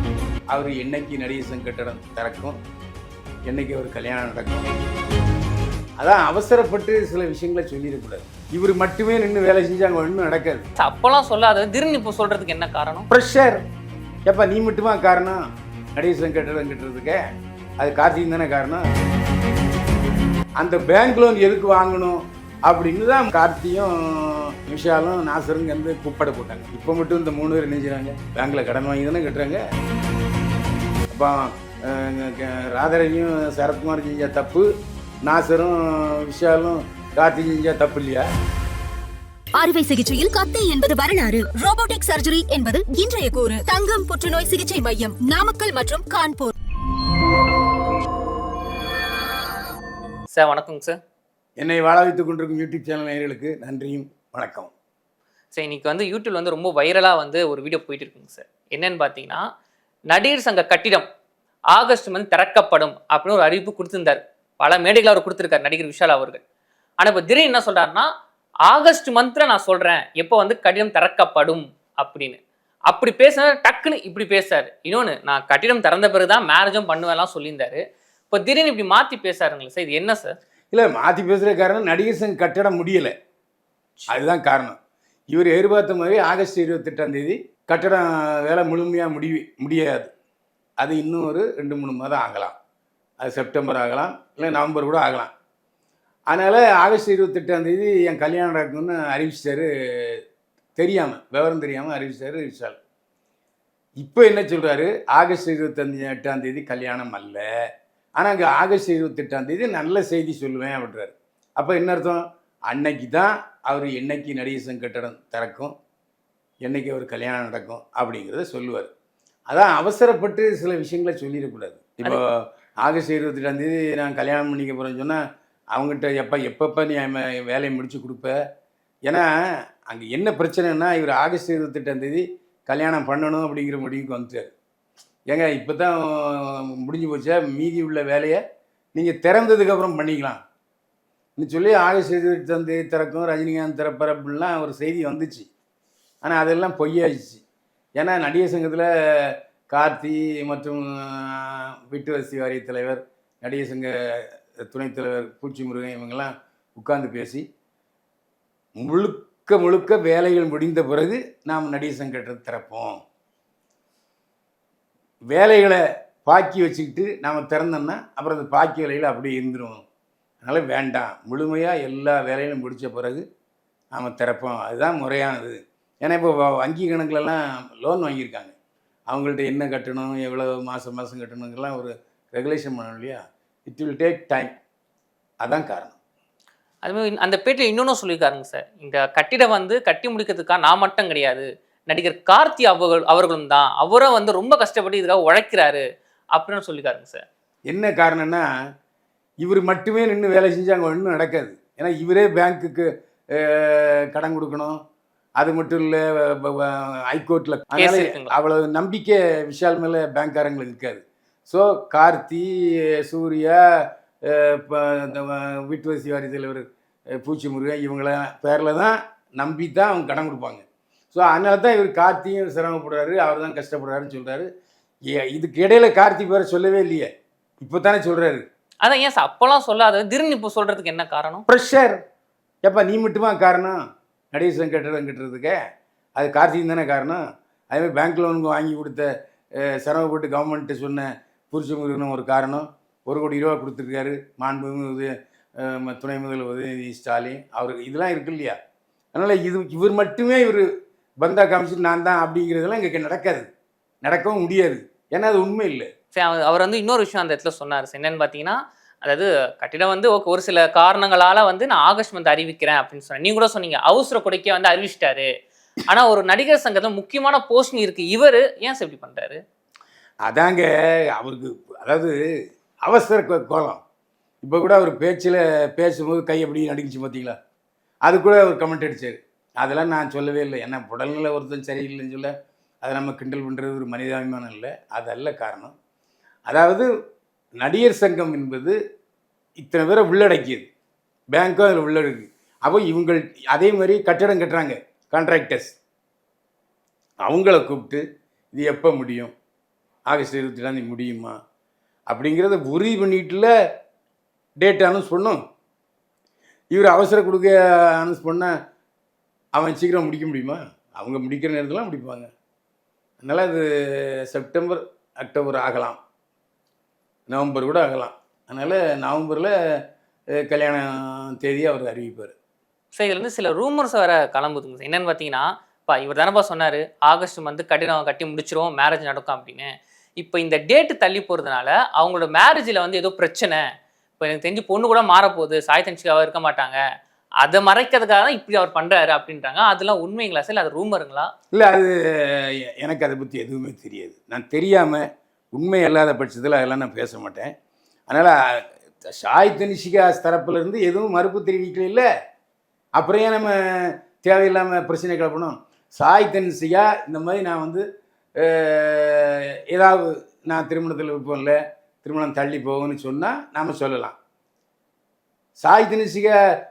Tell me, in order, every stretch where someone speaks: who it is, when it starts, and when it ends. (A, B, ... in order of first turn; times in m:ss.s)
0:00.5-0:02.6 A
0:03.5-0:04.7 A
0:06.0-0:10.6 A
0:10.8-0:13.1 B
0:13.1-0:13.6 A
0:14.2-0:15.4 A
0:16.0-0:17.2 A
0:17.8-0:18.9 A
0:20.6-0:29.6 A
0:31.1-0:34.7 A
0:35.2-0:38.3 A
0:39.6-0:46.5 C
0:50.3-0:51.0 B
0:51.6-0:54.7 A
0:55.5-0:59.4 B
1:00.1-1:01.1 B
1:01.7-1:06.4 B
1:07.0-1:08.1 B
1:08.7-1:20.4 B
1:20.7-1:23.1 A
1:24.1-1:24.8 A
1:25.3-1:30.1 A
1:30.8-1:32.5 A
1:33.2-1:35.3 A
1:36.3-1:40.2 A
1:40.8-1:42.8 A
1:44.0-1:47.4 A
1:48.2-1:55.7 A
1:56.6-1:58.9 A
1:59.5-2:05.2 A
2:05.7-2:08.4 A
2:09.9-2:14.5 A
2:15.3-2:18.4 A
2:18.9-2:20.4 A
2:21.4-2:25.5 A
2:26.2-2:27.4 A
2:28.0-2:37.4 A
2:38.8-2:43.0 A
2:45.3-2:49.8 A
2:50.4-2:53.2 A
2:53.9-2:58.5 A
2:59.1-3:04.5 A
3:05.4-3:05.9 A
3:06.8-3:15.8 B
3:16.3-3:17.2 B
3:17.7-3:18.4 A
3:19.4-3:24.8 A
3:25.4-3:33.6 A
3:27.8-3:28.3 B
3:34.2-3:36.6 A
3:37.2-3:44.5 A
3:45.1-3:47.1 A
3:47.6-3:48.4 A
3:48.8-3:51.4 B
3:51.5-3:52.0 A
3:52.6-3:53.8 A
3:54.3-3:55.6 A
3:56.2-4:08.6 A
4:09.1-4:10.7 A
4:11.2-4:13.5 A
4:14.0-4:15.9 A
4:16.1-4:25.3 B
4:25.9-4:29.4 B
4:30.2-4:32.2 A
4:32.8-4:33.8 A
4:34.4-4:37.4 A
4:38.0-4:42.3 A
4:42.8-4:45.7 A
4:46.5-4:46.9 A
4:47.6-4:48.8 A
4:49.6-4:50.7 A
4:51.3-4:55.8 A
4:57.2-4:59.3 A
5:00.1-5:01.4 A
5:02.1-5:03.5 A
5:04.6-5:05.4 A
5:06.7-5:08.5 A
5:09.6-5:12.3 A
5:13.2-5:16.0 A
5:17.3-5:19.5 A
5:20.4-5:22.3 A
5:22.9-5:33.6 B
5:34.2-5:36.8 B
5:37.4-5:41.3 B
5:41.5-5:47.5 A
5:48.1-5:48.3 A
5:49.0-5:52.0 A
5:53.0-5:57.8 A
5:58.4-6:04.2 A
6:05.6-6:06.3 A